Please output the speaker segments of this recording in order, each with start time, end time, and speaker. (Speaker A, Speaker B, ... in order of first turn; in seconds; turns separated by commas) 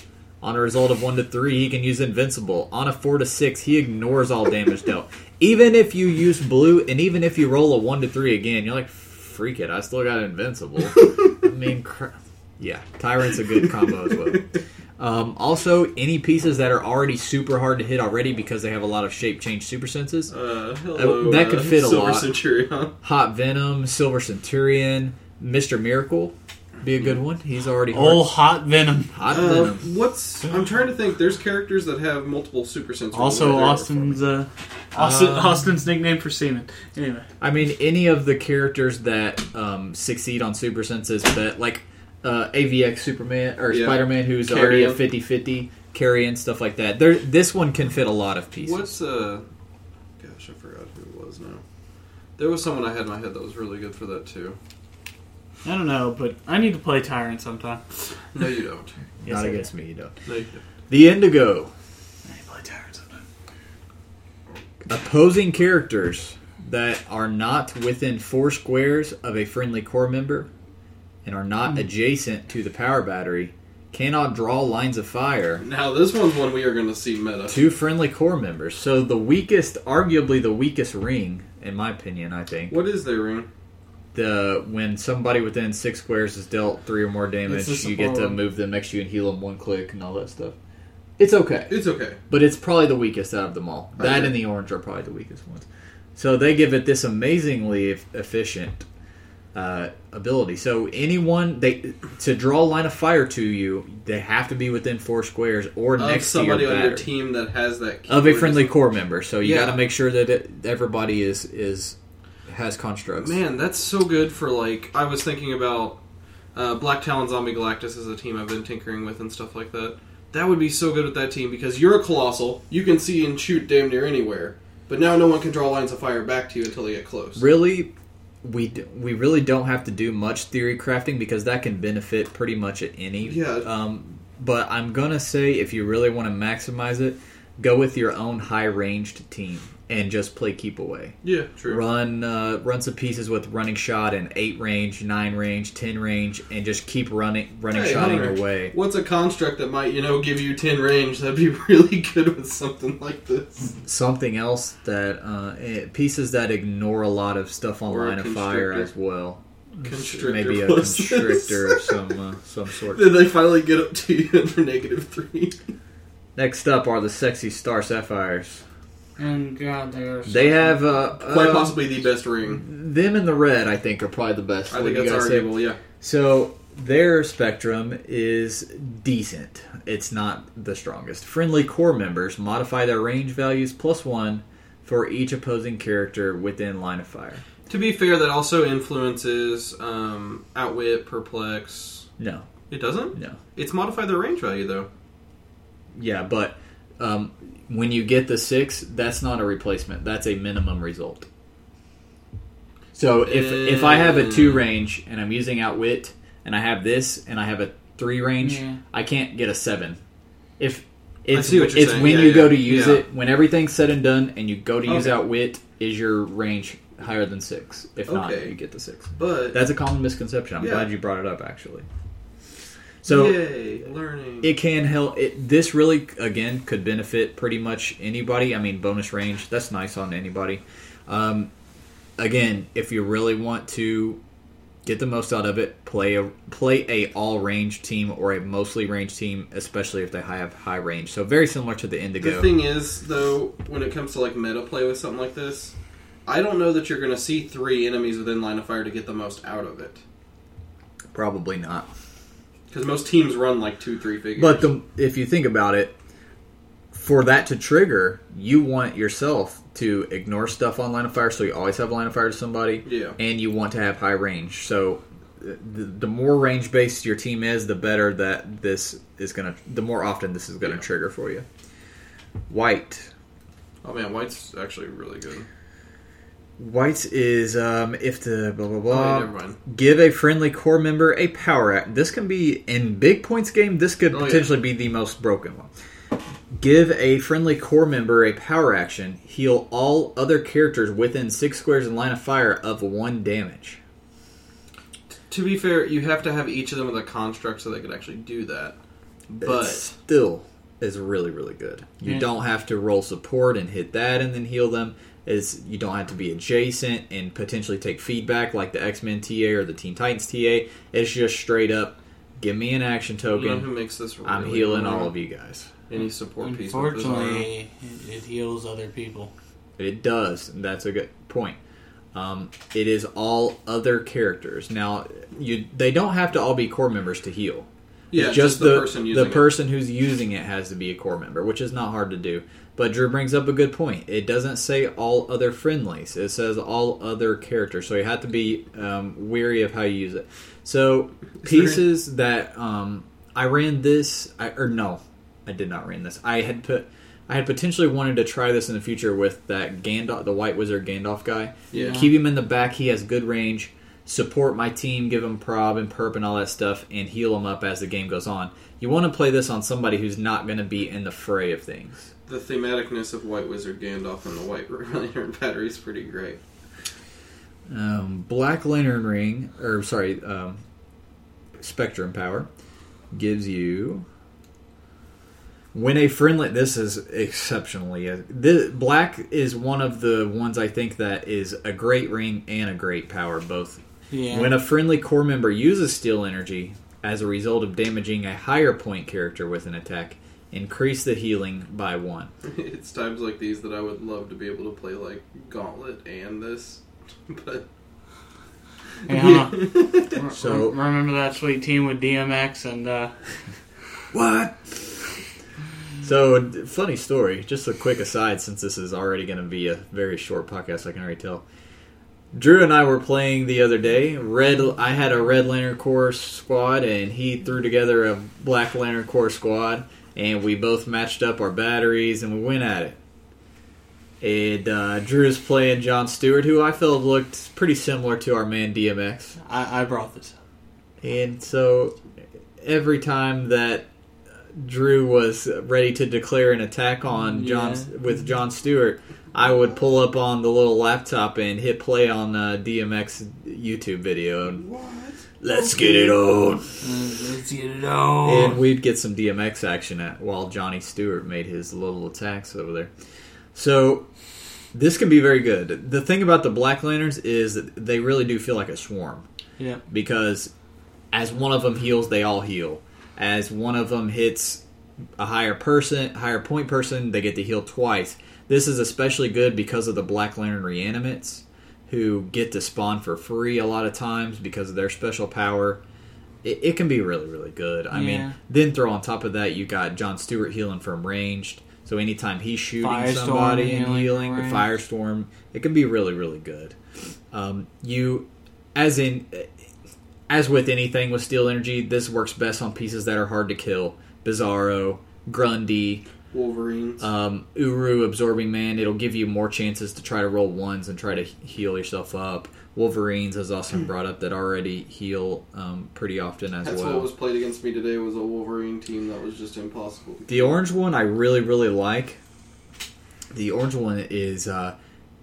Speaker A: 0.4-20.3, Speaker B: 20.3-23.0, Speaker A: 20.9-22.3, Speaker A: 23.0-28.4, Speaker C: 27.9-29.1, Speaker A: 29.1-29.9, Speaker B: 29.3-34.1, Speaker C: 33.1-37.3, Speaker A: 35.0-35.7, Speaker A: 37.4-48.9, Speaker B: 43.7-45.0, Speaker B: 48.6-49.5, Speaker B: 50.2-51.6, Speaker B: 52.4-54.6, Speaker C: 55.6-57.8, Speaker B: 58.3-58.9, Speaker A: 59.2-60.2, Speaker C: 59.3-59.7, Speaker B: 60.3-60.6, Speaker A: 60.9-61.7, Speaker C: 62.3-63.2, Speaker A: 64.9-70.5, Speaker A: 71.2-75.6, Speaker B: 75.6-77.6, Speaker A: 77.5-82.8, Speaker B: 82.7-83.5, Speaker A: 84.1-90.5, Speaker C: 87.5-88.4, Speaker A: 91.2-91.7, Speaker B: 91.7-92.2, Speaker A: 92.3-98.9, Speaker B: 94.0-94.4, Speaker A: 99.5-107.1, Speaker B: 106.0-108.8, Speaker A: 108.1-113.4, Speaker B: 109.4-109.8, Speaker B: 113.2-116.0, Speaker B: 116.5-127.5, Speaker A: 127.4-127.9, Speaker A: 128.4-148.7, Speaker B: 133.2-133.7, Speaker B: 141.2-141.8, Speaker B: 147.7-153.8, Speaker A: 153.8-163.2, Speaker B: 157.9-158.9, Speaker B: 159.8-162.0, Speaker B: 162.9-165.6, Speaker A: 166.4-168.6, Speaker C: 169.2-170.9, Speaker A: 170.3-171.8, Speaker B: 171.2-172.6, Speaker A: 172.6-175.5, Speaker B: 174.7-175.8, Speaker A: 176.0-187.4, Speaker B: 187.7-192.1, Speaker A: 192.2-192.5, Speaker B: 192.7-194.9, Speaker A: 193.1-193.4, Speaker A: 195.9-201.3, Speaker A: 202.9-210.0, Speaker B: 203.2-204.7, Speaker C: 208.4-208.8, Speaker A: 210.6-221.9, Speaker B: 211.3-213.1, Speaker B: 214.9-215.2, Speaker B: 218.1-218.6, Speaker B: 219.2-219.6, Speaker B: 220.6-220.9, Speaker A: 223.0-223.4, Speaker B: 223.1-224.5, Speaker A: 224.4-231.5, Speaker A: 232.2-234.2, Speaker A: 234.8-242.5, Speaker B: 242.2-245.7, Speaker B: 246.3-250.0, Speaker A: 251.1-251.9, Speaker B: 252.7-254.7, Speaker A: 254.4-255.9, Speaker A: 256.9-271.4, Speaker B: 262.9-263.2, Speaker A: 272.5-273.1, Speaker B: 273.8-275.5, Speaker A: 276.6-285.7, Speaker B: 278.9-279.6, Speaker B: 284.1-284.5, Speaker A: 286.5-293.8, Speaker B: 295.3-298.8, Speaker B: 299.3-299.9, Speaker A: 299.4-313.7, Speaker B: 313.3-315.1, Speaker A: 314.2-315.7, Speaker B: 315.9-317.5, Speaker C: 316.4-319.3, Speaker A: 319.8-321.6, Speaker A: 322.1-362.1, Speaker B: 328.1-329.5, Speaker B: 341.4-341.8, Speaker B: 351.7-352.1, Speaker C: 351.8-352.0, Speaker B: 362.3-366.4, Speaker A: 367.7-370.6, Speaker A: 371.6-372.5, Speaker A: 373.1-374.1, Speaker A: 375.7-392.3, Speaker C: 384.1-384.6, Speaker B: 392.4-397.6, Speaker B: 399.1-400.2, Speaker C: 399.1-403.1, Speaker A: 400.3-400.8, Speaker A: 404.1-404.9, Speaker A: 406.0-411.4, Speaker A: 412.3-423.0, Speaker A: 424.2-429.4, Speaker C: 429.4-430.4, Speaker A: 431.0-432.0, Speaker A: 432.6-433.9, Speaker A: 434.5-444.6, Speaker C: 437.2-438.0, Speaker B: 444.7-445.1, Speaker A: 445.4-446.6, Speaker C: 446.8-448.6, Speaker A: 448.2-452.9, Speaker A: 453.5-454.1, Speaker A: 454.7-459.3, Speaker A: 459.9-460.5, Speaker A: 461.1-464.6, Speaker A: 465.2-475.8, Speaker A: 476.4-486.8, Speaker C: 477.9-478.4, Speaker C: 482.8-484.6, Speaker A: 487.3-489.5, Speaker A: 490.3-496.1, Speaker B: 496.3-497.1, Speaker A: 497.0-507.1, Speaker B: 506.6-510.6, Speaker A: 510.3-512.2, Speaker A: 513.3-514.8